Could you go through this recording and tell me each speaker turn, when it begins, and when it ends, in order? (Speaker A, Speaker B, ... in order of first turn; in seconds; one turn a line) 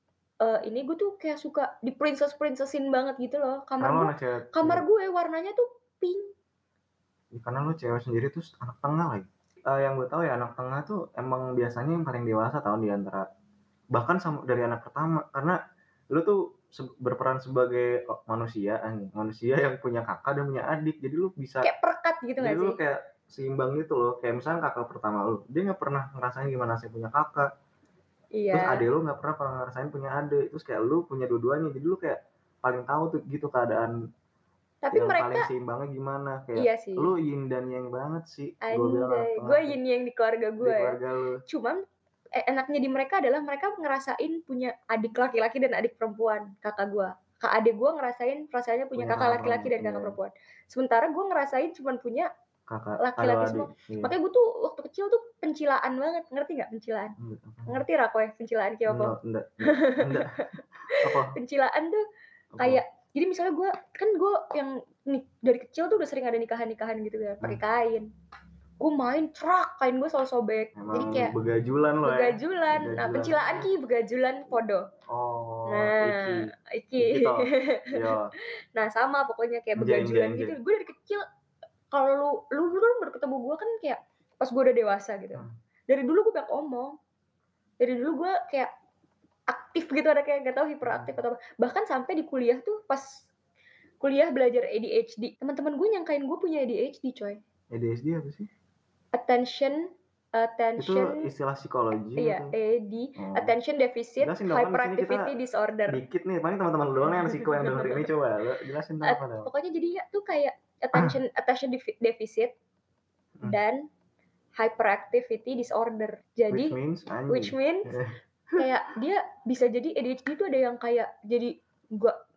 Speaker A: 0.4-6.3
Speaker B: 3.8-4.8
Speaker B: 7.3-13.3
Speaker B: 13.9-15.6
Speaker B: 16.1-21.7
Speaker A: 21.6-22.8
Speaker B: 22.4-27.5
Speaker A: 28.3-28.9
Speaker B: 28.5-33.9
Speaker A: 34.8-35.5
Speaker B: 34.9-39.8
Speaker A: 36.5-37.1
Speaker A: 38.6-41.8
Speaker B: 40.6-41.4
Speaker A: 42.3-52.3
Speaker B: 49.0-50.2
Speaker B: 52.7-54.1
Speaker A: 53.0-62.0
Speaker B: 57.2-57.8
Speaker B: 58.9-61.4
Speaker B: 62.5-62.8
Speaker A: 62.6-68.1
Speaker A: 68.8-71.3
Speaker B: 70.8-73.7
Speaker A: 72.0-74.9
Speaker B: 75.1-78.3
Speaker A: 75.7-81.2
Speaker B: 79.8-80.5
Speaker A: 81.9-87.0
Speaker A: 87.8-88.7
Speaker A: 89.5-93.3
Speaker B: 90.8-91.1
Speaker A: 94.0-97.4
Speaker B: 97.7-98.5
Speaker A: 99.1-101.3
Speaker B: 100.8-102.5
Speaker A: 102.2-106.0
Speaker B: 103.2-103.5
Speaker B: 104.2-105.3
Speaker B: 105.9-109.5
Speaker A: 107.1-108.1
Speaker A: 109.0-112.5
Speaker A: 113.4-113.9
Speaker A: 114.5-116.8
Speaker B: 116.5-118.6
Speaker A: 117.3-118.0
Speaker A: 118.6-122.2